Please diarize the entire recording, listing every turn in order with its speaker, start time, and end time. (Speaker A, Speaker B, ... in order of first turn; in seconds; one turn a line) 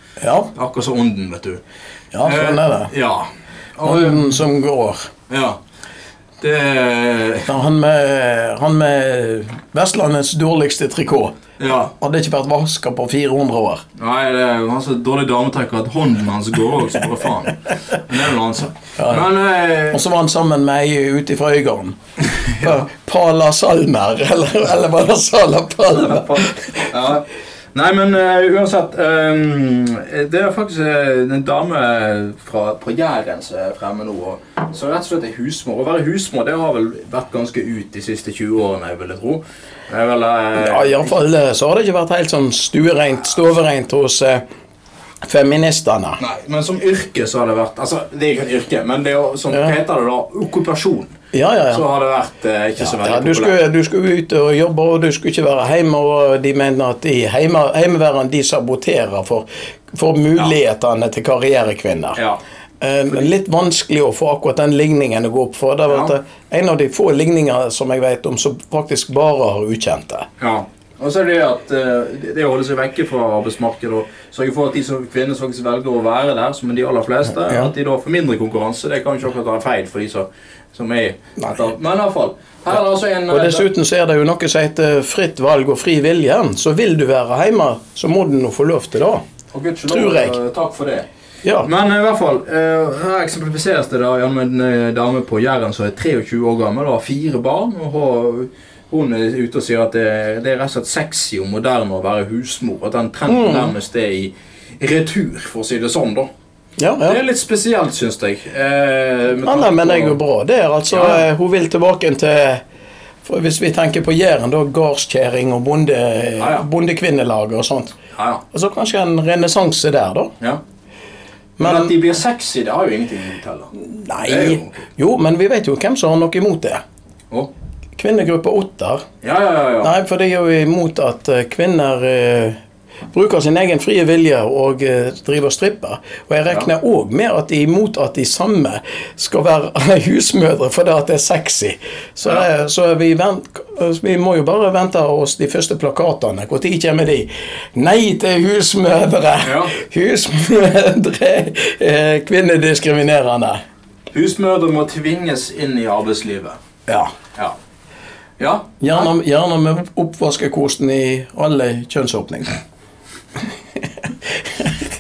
Speaker A: 0.2-0.5
Speaker B: 0.5-1.6
Speaker A: 2.1-2.9
Speaker B: 2.2-4.3
Speaker A: 3.8-5.0
Speaker B: 5.3-5.6
Speaker B: 6.4-7.5
Speaker A: 7.5-11.4
Speaker B: 11.6-11.9
Speaker A: 12.0-13.8
Speaker B: 14.0-20.0
Speaker A: 19.0-19.3
Speaker A: 19.9-22.0
Speaker A: 22.6-26.9
Speaker B: 26.1-41.2
Speaker A: 40.6-44.4
Speaker A: 45.2-46.2
Speaker B: 46.2-51.2
Speaker A: 51.3-51.8
Speaker B: 51.7-53.6
Speaker A: 52.8-62.2
Speaker A: 62.8-70.3
Speaker B: 70.4-83.7
Speaker A: 83.3-89.2
Speaker B: 89.5-91.1
Speaker A: 89.9-90.4
Speaker A: 91.4-91.7
Speaker B: 91.6-106.3
Speaker A: 103.3-103.7
Speaker A: 106.8-107.2
Speaker B: 107.1-110.2
Speaker A: 109.5-112.6
Speaker B: 110.9-111.2
Speaker A: 113.2-118.0
Speaker B: 116.4-116.7
Speaker B: 118.2-118.4
Speaker A: 118.5-120.3
Speaker A: 121.6-122.0
Speaker B: 121.6-124.8
Speaker A: 123.8-126.8
Speaker A: 128.0-129.0
Speaker B: 129.2-129.9
Speaker A: 129.8-132.6
Speaker A: 133.1-153.6
Speaker B: 149.4-149.8
Speaker B: 154.1-156.6
Speaker B: 158.4-158.9
Speaker A: 158.8-162.5